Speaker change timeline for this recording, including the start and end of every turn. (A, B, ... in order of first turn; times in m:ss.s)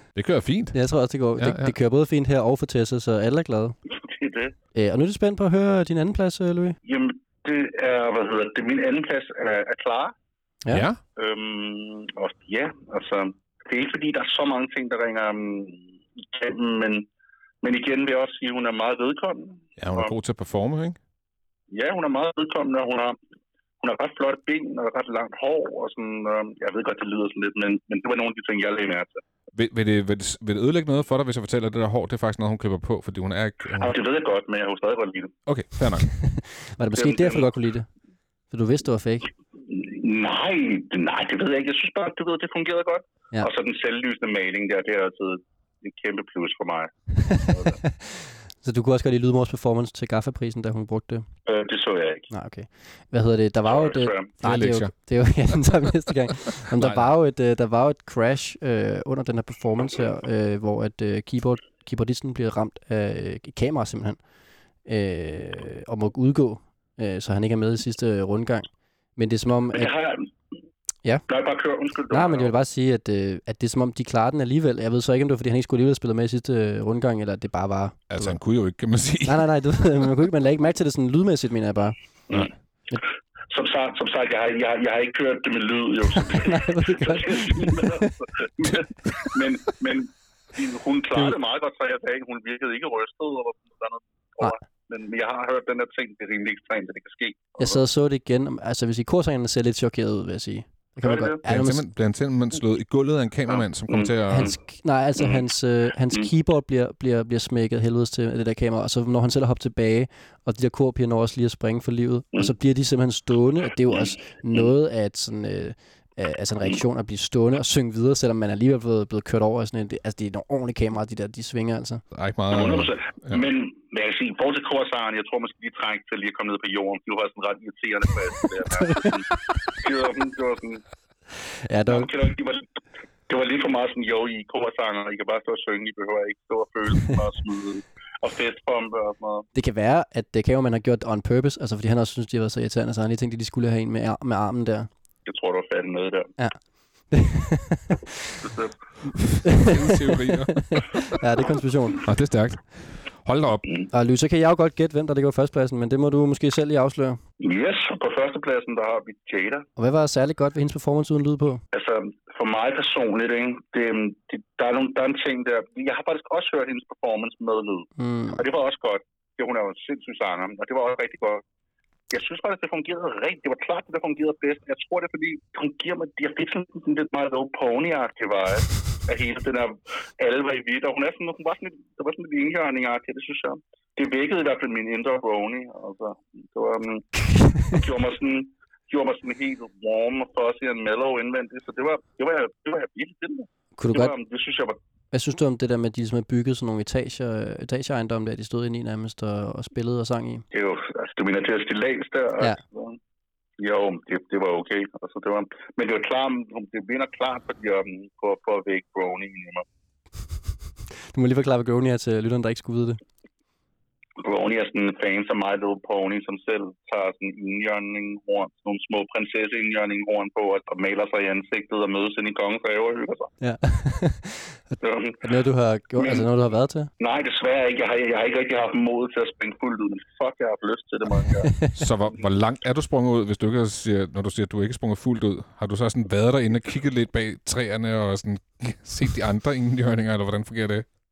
0:00.2-0:00.8 A
0:00.7-0:03.8 B
0:01.4-0:01.7 A
0:04.0-0:04.5 C
0:04.7-0:06.8 B
0:06.8-0:10.1 C
0:10.7-0:11.0 A
0:11.2-0:17.1 C
0:17.6-0:20.1 C
0:19.8-0:21.0 A
0:21.7-0:23.2 C
0:23.8-0:29.2 C
0:29.5-0:33.9 A
0:33.8-0:35.3 C
0:35.5-0:36.1 A
0:35.9-0:37.9 B
0:37.0-0:37.5 C
0:38.5-0:39.3 B
0:39.7-0:47.8 C
0:47.8-0:51.3 B
0:51.4-0:52.3 C
0:52.3-1:04.2 B
0:53.6-0:54.3 C
0:54.4-0:54.9 A
0:56.8-0:57.1 A
1:04.8-1:09.9 B
1:09.7-1:10.2 C
1:11.3-1:12.5 C
1:12.1-1:18.4 B
1:18.1-1:19.5 A
1:19.2-1:21.9 B
1:23.5-1:37.8 C
1:26.3-1:28.1 B
1:37.6-1:41.8 B
1:41.0-1:41.4 C
1:41.4-1:44.5 A
1:43.5-1:44.6 C
1:44.3-2:02.0 B
2:02.1-2:03.4 A
2:02.5-2:10.8 C
2:11.6-2:12.1 B
2:11.9-2:12.6 C
2:13.3-2:19.4 C
2:19.5-2:24.9 B
2:25.2-2:26.3 C
2:26.4-2:28.0 B
2:28.4-2:28.7 C
2:29.4-2:32.0 B
2:29.5-2:31.2 A
2:32.0-2:33.6 A
2:33.9-2:37.2 B
2:37.4-2:39.6 C
2:39.8-2:41.6 B
2:41.7-2:51.4 C
2:48.0-2:48.4 B
2:52.1-3:14.8 C
3:13.8-3:14.1 B
3:15.1-3:20.4 B
3:20.5-3:23.0 C
3:23.6-3:29.6 C
3:31.1-3:33.0 B
3:34.2-3:43.3 C
3:43.4-3:44.6 B
3:44.8-3:45.2 C
3:45.2-3:46.9 B
3:46.0-3:46.3 C
3:47.0-3:51.8 C
3:51.4-3:51.7 B
3:51.8-4:00.8 A